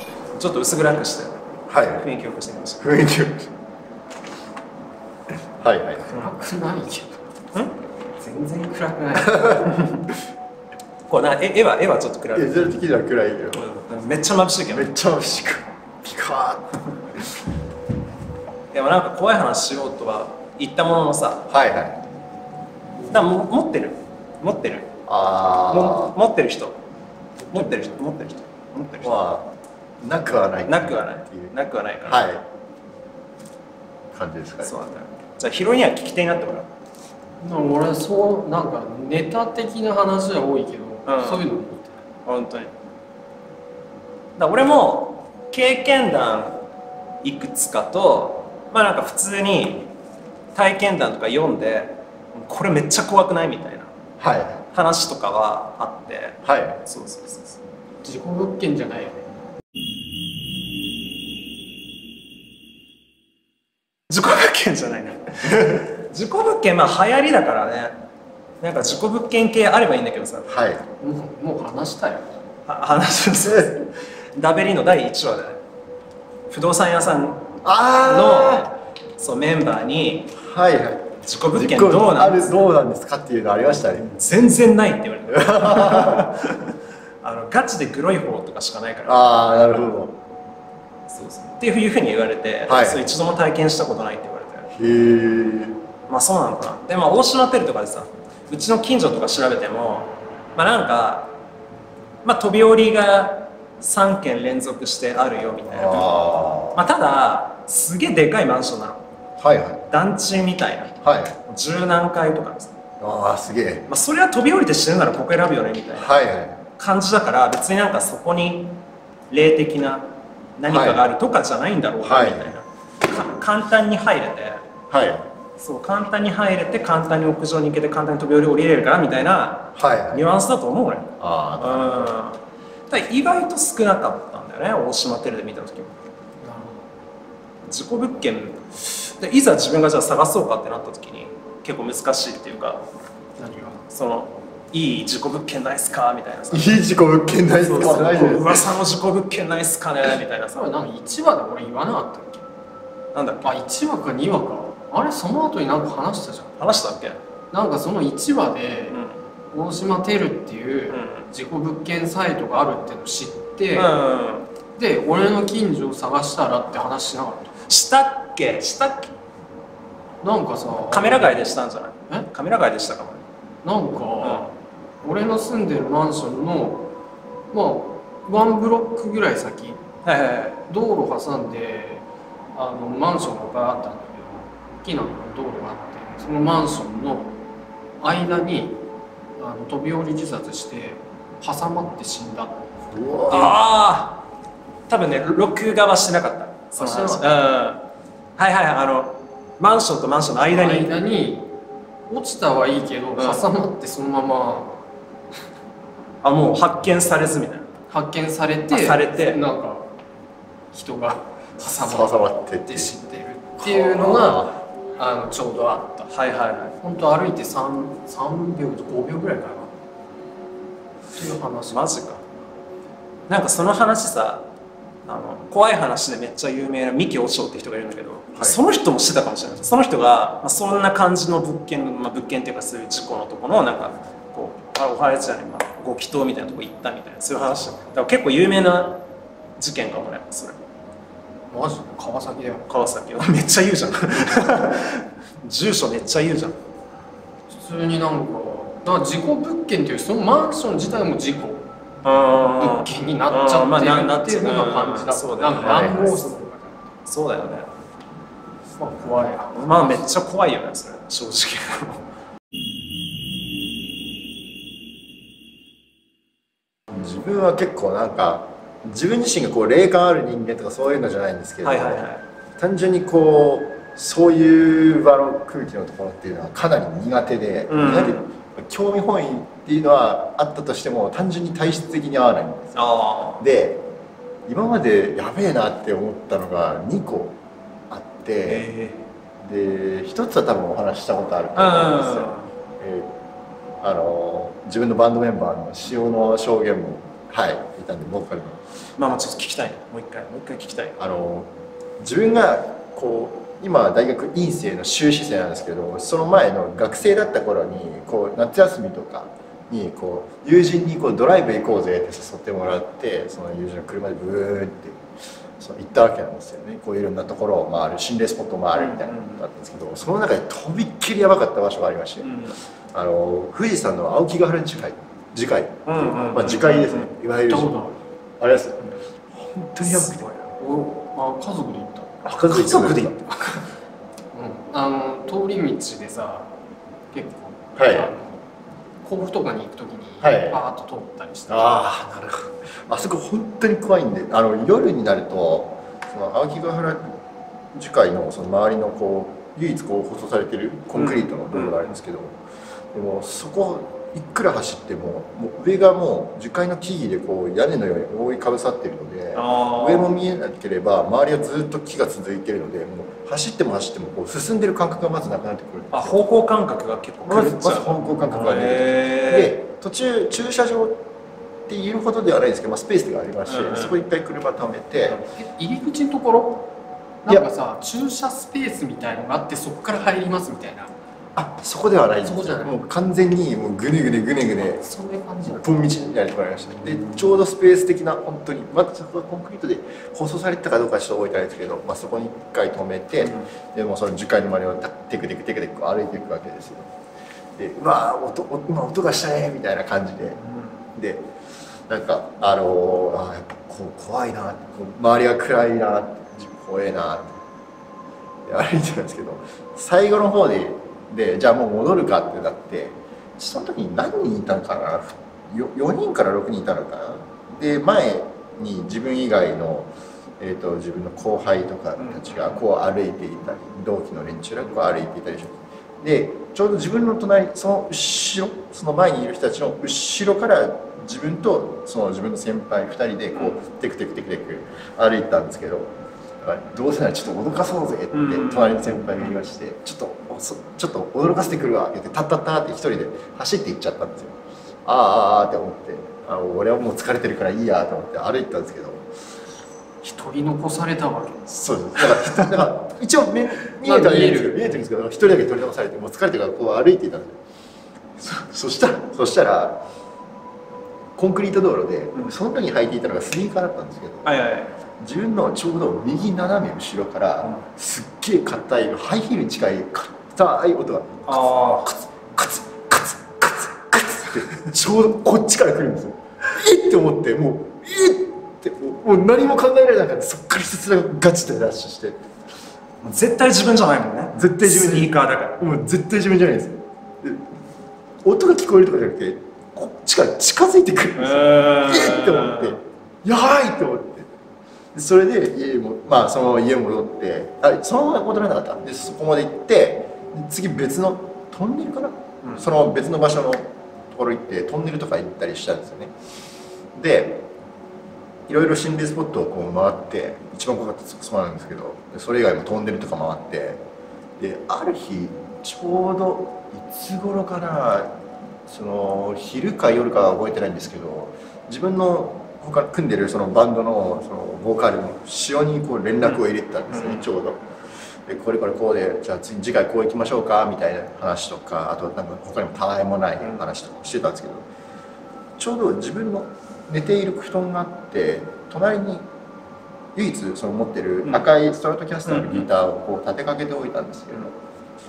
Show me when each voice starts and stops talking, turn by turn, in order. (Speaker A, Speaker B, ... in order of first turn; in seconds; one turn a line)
Speaker A: 0.3-1.4
Speaker B: 1.7-2.1
Speaker A: 1.9-2.8
Speaker B: 2.8-3.5
Speaker B: 5.6-6.2
Speaker C: 6.1-7.2
Speaker C: 8.2-9.5
Speaker B: 9.1-9.7
Speaker A: 9.6-10.0
Speaker A: 11.1-12.7
Speaker B: 12.3-13.6
Speaker A: 13.5-14.9
Speaker B: 14.7-17.2
Speaker A: 18.7-21.5
Speaker B: 21.5-22.0
Speaker A: 23.1-24.9
Speaker B: 25.1-26.1
Speaker A: 25.7-26.8
Speaker A: 27.5-29.2
Speaker B: 29.0-29.5
Speaker B: 30.0-31.5
Speaker A: 30.7-32.3
Speaker B: 32.0-32.4
Speaker B: 34.1-34.8
Speaker A: 34.6-36.7
Speaker C: 37.4-42.0
Speaker A: 41.0-41.4
Speaker A: 42.2-42.7
Speaker A: 44.4-46.6
Speaker A: 47.2-49.9
Speaker A: 50.5-53.9
Speaker B: 54.2-54.6
Speaker A: 54.7-57.6
Speaker B: 56.4-56.8
Speaker C: 58.0-59.2
Speaker A: 64.1-68.0
Speaker A: 68.6-70.5
Speaker B: 70.5-70.8
Speaker C: 71.0-72.3
Speaker A: 72.7-75.6
Speaker B: 73.4-73.7
Speaker A: 76.5-80.3
Speaker B: 77.6-78.7
Speaker B: 80.3-84.1
Speaker A: 81.2-82.7
Speaker A: 84.0-89.3
Speaker B: 85.3-86.3
Speaker B: 89.0-90.2
Speaker A: 91.1-94.7
Speaker B: 92.7-93.0
Speaker B: 94.7-95.8
Speaker A: 96.1-101.4
Speaker A: 102.2-109.0
Speaker B: 105.7-106.8
Speaker B: 109.4-109.8
Speaker A: 109.9-110.9
Speaker B: 111.0-111.4
Speaker A: 111.4-112.7
Speaker B: 113.0-113.8
Speaker A: 113.9-116.1
Speaker B: 116.0-116.6
Speaker A: 116.8-124.6
Speaker B: 120.7-121.1
Speaker B: 122.0-122.6
Speaker B: 124.9-125.3
Speaker A: 125.6-136.0
Speaker B: 129.7-130.3
Speaker B: 131.2-132.2
Speaker C: 136.4-136.8
Speaker A: 137.6-142.8
Speaker C: 143.4-143.8
Speaker A: 143.9-146.8
Speaker B: 146.5-148.8
Speaker A: 147.6-150.7
Speaker C: 150.5-152.4
Speaker A: 153.1-153.5
Speaker C: 153.4-156.6
Speaker A: 156.6-157.2
Speaker C: 157.5-159.0
Speaker A: 158.9-159.2
Speaker C: 159.5-163.9
Speaker A: 160.9-161.2
Speaker A: 163.7-164.5
Speaker C: 164.8-167.5
Speaker A: 167.7-169.1
Speaker C: 170.2-171.4
Speaker A: 170.9-173.2
Speaker C: 173.6-174.5
Speaker A: 174.2-174.5
Speaker C: 175.0-176.9
Speaker C: 177.5-179.8
Speaker A: 180.0-180.6
Speaker C: 180.7-187.3
Speaker C: 188.0-188.8
Speaker C: 189.4-192.6
Speaker B: 192.9-193.6
Speaker A: 193.3-194.2
Speaker A: 194.9-197.8
Speaker B: 196.8-197.4
Speaker A: 198.4-200.9
Speaker C: 200.4-201.5
Speaker C: 202.1-204.8
Speaker A: 203.2-203.4
Speaker A: 206.2-207.7
Speaker C: 207.9-209.9
Speaker A: 208.7-209.4
Speaker C: 210.7-216.1
Speaker B: 211.6-212.9
Speaker B: 213.6-214.6
Speaker A: 216.1-216.8
Speaker C: 216.8-219.7
Speaker C: 221.1-222.0
Speaker A: 221.7-222.2
Speaker A: 223.3-224.5
Speaker A: 225.1-239.0
Speaker A: 239.6-240.6
Speaker C: 241.5-242.7
Speaker A: 242.7-246.6
Speaker C: 247.5-251.7
Speaker A: 252.0-256.2
Speaker C: 252.6-256.8
Speaker B: 255.6-256.1
Speaker A: 257.1-257.7
Speaker C: 258.8-259.6
Speaker A: 259.5-262.0
Speaker B: 266.9-272.0
Speaker A: 271.6-272.2
Speaker B: 272.6-282.8
Speaker A: 277.7-278.3
Speaker A: 282.7-283.4
Speaker B: 283.4-283.9
Speaker B: 284.5-287.4
Speaker B: 287.9-288.7
Speaker A: 288.5-289.1
Speaker B: 289.4-293.1
Speaker A: 291.6-292.5
Speaker B: 293.8-298.6
Speaker A: 299.0-301.0
Speaker B: 301.0-315.0
Speaker B: 315.6-322.4
Speaker A: 318.7-319.4
Speaker A: 322.2-322.6
Speaker B: 322.9-327.9
Speaker A: 325.9-327.1
Speaker C: 327.4-328.0
Speaker B: 328.4-330.3
Speaker A: 329.8-330.5
Speaker C: 330.6-332.2
Speaker A: 332.2-333.6
Speaker B: 332.4-333.1
Speaker C: 334.3-336.5
Speaker C: 337.1-338.4
Speaker B: 337.8-338.1
Speaker C: 339.0-341.9
Speaker B: 340.2-340.6
Speaker B: 341.5-347.1
Speaker B: 347.7-352.4
Speaker A: 350.9-351.9
Speaker B: 352.9-366.2
Speaker A: 359.3-360.1
Speaker A: 365.9-369.5
Speaker B: 367.2-371.0
Speaker B: 371.7-375.2
Speaker A: 373.4-374.0
Speaker C: 375.2-376.7
Speaker C: 377.2-380.9
Speaker B: 381.4-384.8
Speaker C: 382.2-382.7
Speaker C: 384.6-385.9
Speaker B: 385.4-396.9
Speaker A: 386.8-387.2
Speaker A: 393.2-393.5
Speaker B: 397.6-400.4
Speaker A: 400.4-400.9
Speaker B: 400.9-401.3
Speaker B: 401.9-407.4
Speaker B: 408.4-449.0
Speaker A: 422.0-422.6
Speaker A: 433.3-433.6
Speaker A: 438.1-439.4
Speaker C: 450.0-451.5
Speaker B: 451.5-457.4
Speaker A: 452.2-452.6
Speaker C: 453.8-454.8
Speaker B: 458.2-459.8
Speaker B: 461.1-464.4
Speaker A: 464.2-464.7
Speaker B: 465.0-482.2
Speaker A: 471.3-472.0
Speaker A: 483.0-485.6
Speaker B: 484.3-487.5
Speaker B: 488.2-494.3
Speaker A: 491.2-492.8
Speaker B: 494.9-506.1
Speaker A: 502.4-502.7
Speaker B: 506.9-507.4
Speaker B: 508.5-513.8
Speaker B: 514.4-518.1
Speaker B: 518.6-527.7
Speaker A: 526.2-527.3
Speaker B: 528.3-534.7
Speaker B: 535.6-539.3
Speaker B: 540.1-544.5
Speaker A: 541.2-541.5
Speaker A: 542.2-542.7